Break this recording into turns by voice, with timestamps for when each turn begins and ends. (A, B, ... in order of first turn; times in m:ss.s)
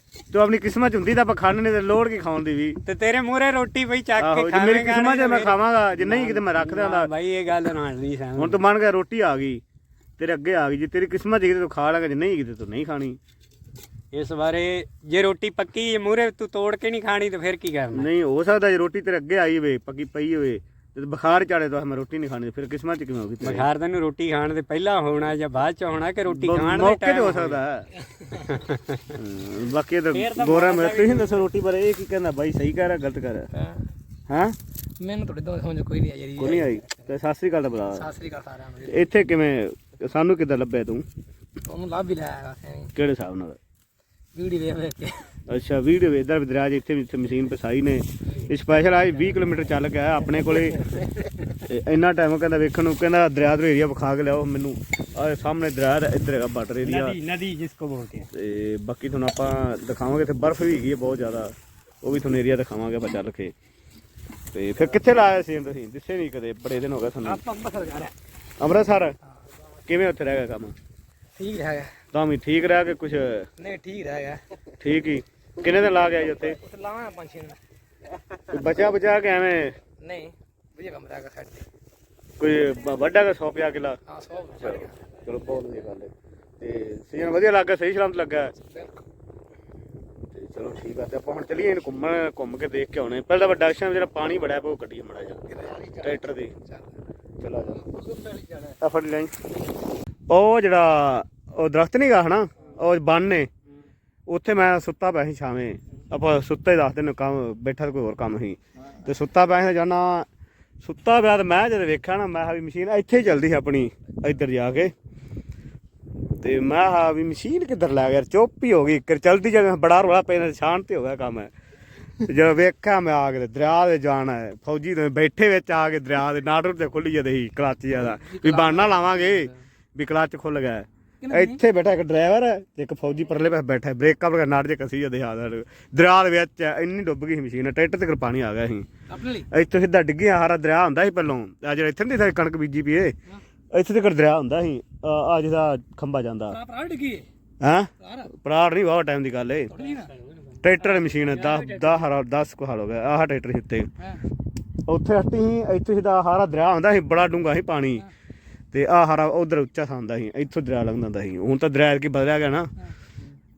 0:00.3-0:02.8 A
0:02.8-0:08.6 B
0:04.2-0:07.1 A
0:08.4-0:09.6 A
0:10.2-0:13.2 A
0:14.1-0:18.1 B
0:17.9-0:23.7 A
0:23.4-0:27.6 B
0:26.3-0:27.9 A
0:28.4-0:29.2 B
0:29.2-0:33.5 A
0:30.1-0:31.5 B
0:33.6-0:33.8 C
0:34.3-0:34.6 A
0:35.0-0:37.0 C
0:36.4-0:38.1 A
0:37.9-0:39.1 C
0:38.9-0:41.1 A
0:41.7-0:42.9 C
0:42.9-0:43.6 A
0:44.3-0:45.4 C
0:45.5-0:50.8 A
0:51.6-0:57.2 A
0:56.8-0:58.3 B
0:58.3-1:03.6 A
1:04.5-1:07.4 A
1:07.3-1:08.1 C
1:08.6-1:09.2 A
1:09.9-1:10.8 A
1:11.4-1:12.0 C
1:12.1-1:13.5 A
1:13.6-1:14.4 C
1:14.8-1:16.6 A
1:16.6-1:17.6 C
1:18.5-1:19.8 A
1:20.0-1:21.6 C
1:22.4-1:24.0 A
1:24.1-1:25.0 C
1:24.6-1:28.5 A
1:28.7-1:29.0 C
1:30.3-1:36.5 A
1:37.4-1:38.0 A
1:38.6-1:39.3 A
1:40.3-1:43.5 A
1:44.3-1:50.3 A
1:50.8-1:54.9 A
1:56.4-2:01.5 A
2:02.2-2:18.9 A
2:08.4-2:09.3 C
2:11.2-2:11.6 C
2:19.1-2:19.4 C
2:19.4-2:23.2 A
2:23.7-2:26.6 A
2:26.6-2:27.2 C
2:27.6-2:29.7 A
2:29.8-2:30.1 C
2:30.6-2:33.9 A
2:31.5-2:31.9 C
2:34.9-2:38.1 A
2:38.7-2:42.7 A